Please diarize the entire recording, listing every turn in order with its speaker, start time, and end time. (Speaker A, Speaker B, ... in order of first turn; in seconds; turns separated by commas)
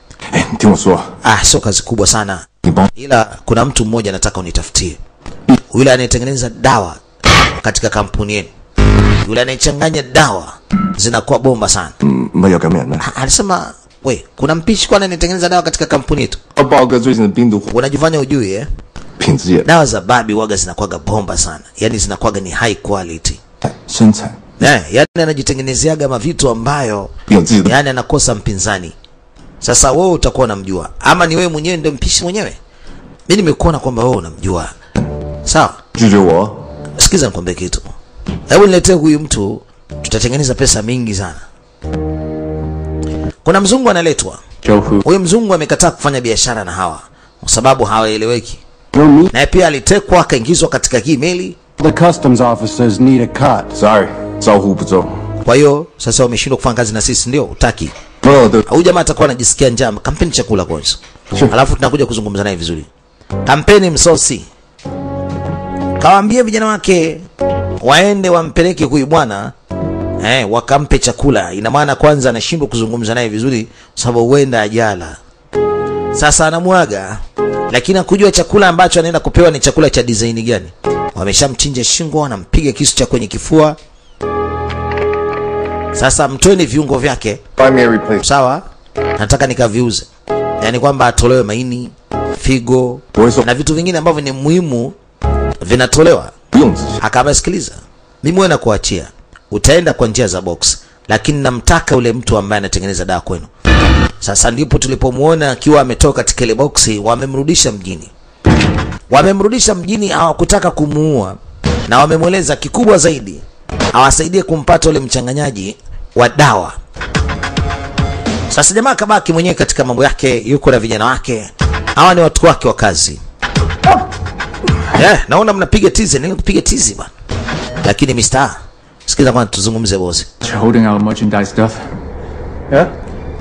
Speaker A: 0.3-1.1, Speaker B: 1.2-5.0, Speaker B: 5.7-7.0, Speaker B: 7.6-8.5, Speaker B: 9.2-11.9, Speaker A: 12.0-13.0, Speaker B: 13.0-16.4, Speaker A: 16.6-17.7, Speaker B: 17.7-18.7, Speaker A: 19.2-19.7, Speaker B: 19.6-23.4, Speaker A: 23.9-24.4, Speaker B: 24.6-27.1, Speaker A: 27.3-27.7, Speaker B: 27.6-28.9, Speaker B: 29.6-32.6, Speaker B: 33.3-34.7, Speaker B: 35.5-35.8, Speaker A: 36.0-36.6, Speaker B: 37.0-37.8, Speaker B: 38.5-41.4, Speaker B: 43.5-44.4, Speaker C: 44.6-45.0, Speaker B: 45.0-48.6, Speaker B: 49.3-51.6, Speaker C: 51.8-53.8, Speaker A: 53.7-55.1, Speaker B: 55.5-57.9, Speaker A: 58.2-58.7, Speaker B: 58.7-62.9, Speaker B: 63.5-64.5, Speaker B: 66.0-67.2, Speaker B: 67.8-69.5, Speaker B: 70.2-75.2, Speaker B: 76.1-83.8, Speaker B: 86.0-87.4, Speaker A: 87.6-88.2, Speaker B: 88.2-88.6, Speaker B: 89.2-90.1, Speaker B: 90.6-95.0, Speaker A: 93.2-93.5, Speaker B: 95.6-96.3, Speaker A: 96.5-97.0, Speaker B: 97.0-103.5, Speaker B: 104.2-108.1, Speaker B: 109.1-111.4, Speaker B: 111.9-113.4, Speaker B: 113.9-116.8, Speaker B: 118.5-123.2, Speaker B: 124.9-127.1, Speaker B: 127.8-130.3, Speaker C: 130.4-131.8